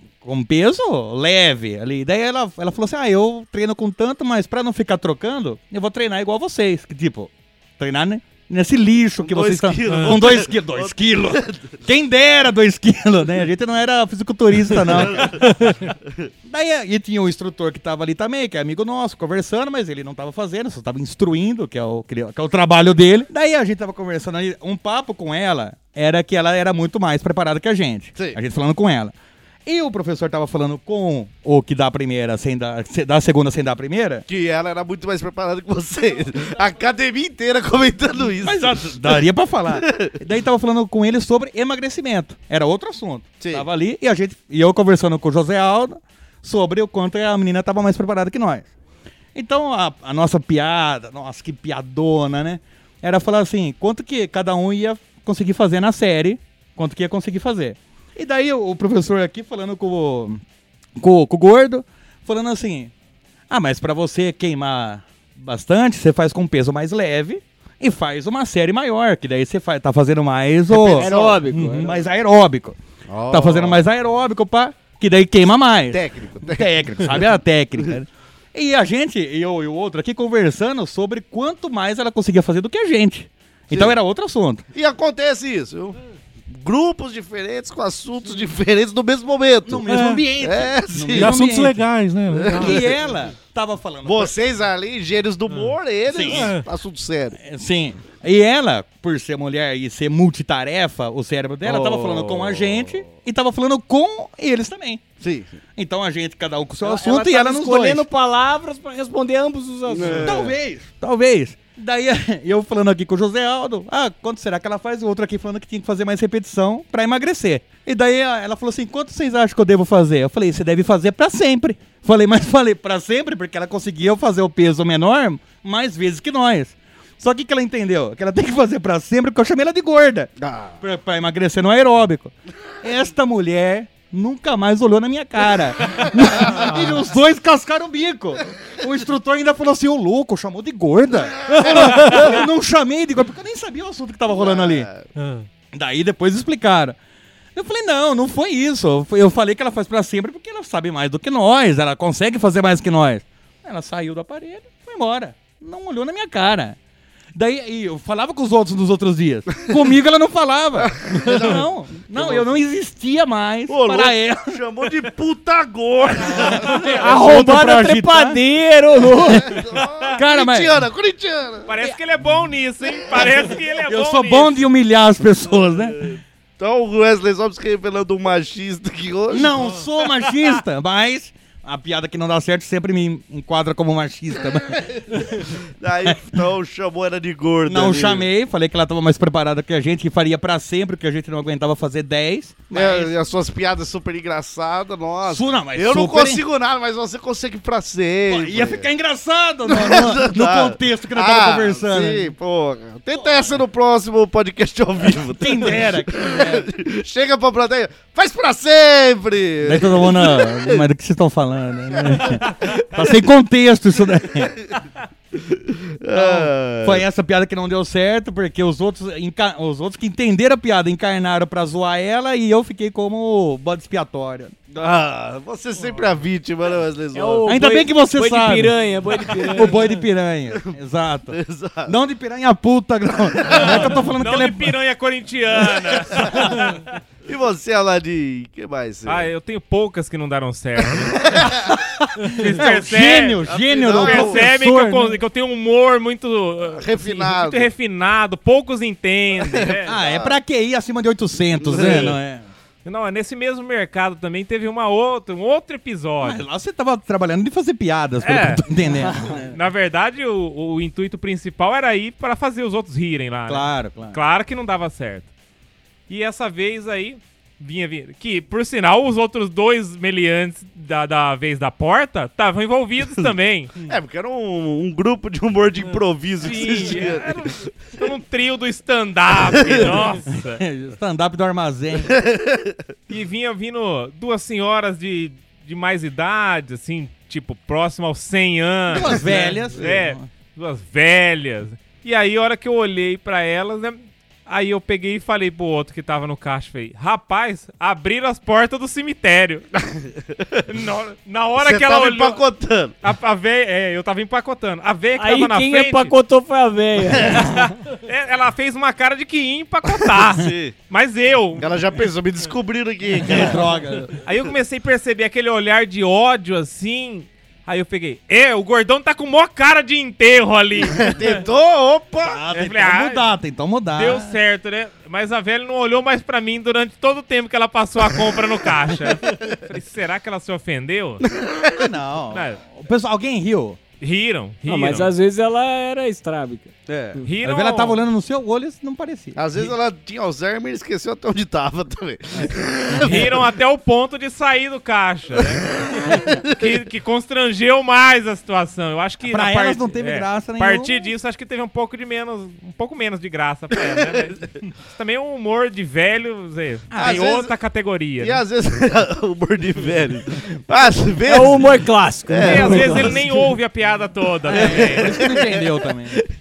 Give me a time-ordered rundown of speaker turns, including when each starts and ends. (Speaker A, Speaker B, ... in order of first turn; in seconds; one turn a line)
Speaker A: 0.2-15.8
Speaker B: 9.2-11.8
Speaker C: 9.9-10.1
Speaker B: 14.9-15.5
Speaker A: 16.4-29.1
Speaker A: 29.7-34.2
Speaker B: 34.3-40.1
Speaker A: 38.4-48.7
Speaker B: 43.4-43.7
Speaker A: 49.4-60.4
Speaker A: 61.0-62.9
Speaker A: 63.5-72.8
Speaker B: 70.7-71.5
Speaker D: 70.7-72.0
Speaker B: 73.1-73.8
Speaker A: 73.3-84.6
Speaker B: 75.9-77.1
Speaker B: 84.7-86.0
Speaker B: 86.5-91.4
Speaker A: 89.7-91.8
Speaker C: 89.9-90.3
Speaker C: 91.1-93.0
Speaker B: 92.3-93.0
Speaker A: 92.5-94.3
Speaker B: 94.0-97.4
Speaker A: 96.1-96.6
Speaker C: 96.3-96.7
Speaker A: 97.4-105.0
Speaker B: 101.7-102.9
Speaker B: 105.2-105.5
Speaker A: 105.8-108.0
Speaker D: 106.8-110.3
Speaker B: 109.9-110.6
Speaker A: 110.2-144.9
Speaker B: 130.4-130.8
Speaker B: 141.7-142.2
Speaker B: 144.3-145.1
Speaker C: 145.2-145.5
Speaker A: 145.7-147.0
Speaker A: 147.6-156.8
Speaker A: 157.3-164.6
Speaker B: 160.8-162.5
Speaker B: 163.7-167.0
Speaker A: 166.3-168.4
Speaker D: 167.0-169.5
Speaker B: 169.3-171.7
Speaker A: 169.3-170.7
Speaker E: 171.7-174.6
Speaker A: 173.8-176.1
Speaker B: 176.0-179.6
Speaker A: 179.3-185.3
Speaker B: 185.8-188.3
Speaker A: 187.7-193.2
Speaker B: 192.7-198.9
Speaker A: 195.3-196.4
Speaker A: 198.3-202.3
Speaker B: 199.7-210.8
Speaker A: 205.2-206.7
Speaker A: 209.6-214.5
Speaker B: 212.1-213.1
Speaker B: 214.4-214.8
Speaker B: 215.3-217.1
Speaker A: 216.1-224.5
Speaker B: 224.7-227.5
Speaker D: 227.1-229.9
Speaker A: 227.5-228.8
Speaker A: 229.3-234.7
Speaker B: 231.3-231.9
Speaker B: 233.4-233.9
Speaker E: 233.5-236.9
Speaker B: 236.1-236.5
Speaker A: 236.2-236.7
Speaker B: 237.3-239.3
Speaker E: 239.1-241.4
Speaker B: 240.9-241.8
Speaker A: 241.6-245.2
Speaker E: 242.3-249.9
Speaker B: 243.4-244.4
Speaker B: 246.8-247.7
Speaker B: 249.4-250.4
Speaker A: 249.8-252.5
Speaker B: 251.6-252.2
Speaker E: 252.8-256.4
Speaker A: 256.2-259.6
Speaker E: 258.2-258.6
Speaker E: 259.2-265.3
Speaker A: 263.5-264.2
Speaker E: 266.1-273.7
Speaker B: 273.9-277.7
Speaker E: 276.4-280.6
Speaker B: 279.5-280.0
Speaker A: 280.3-282.1
Speaker B: 282.1-282.8
Speaker E: 283.1-299.7
Speaker A: 288.9-290.3
Speaker B: 300.2-300.6
Speaker E: 300.7-302.4
Speaker B: 301.6-302.9
Speaker E: 303.0-306.1
Speaker D: 305.2-307.8
Speaker E: 307.2-311.7
Speaker B: 310.0-310.7
Speaker B: 311.6-313.6
Speaker A: 313.2-314.1
Speaker E: 314.2-321.4
Speaker B: 320.8-322.4
Speaker A: 322.2-324.4
Speaker E: 322.5-323.2
Speaker E: 323.9-331.2
Speaker B: 331.2-331.9
Speaker A: 331.8-333.8
Speaker E: 332.3-332.6
Speaker E: 334.0-335.1
Speaker D: 334.7-336.7
Speaker B: 336.9-337.2
Speaker E: 337.2-338.0
Speaker A: 337.4-339.7
Speaker B: 339.4-343.4
Speaker A: 343.0-343.3
Speaker E: 343.0-358.4
Speaker B: 345.9-346.7
Speaker A: 349.2-351.1
Speaker A: 356.9-357.3
Speaker B: 357.0-357.5
Speaker B: 358.2-361.6
Speaker D: 361.3-363.2
Speaker B: 362.3-363.5
Speaker E: 362.4-365.2
Speaker A: 364.5-366.2
Speaker B: 364.5-365.7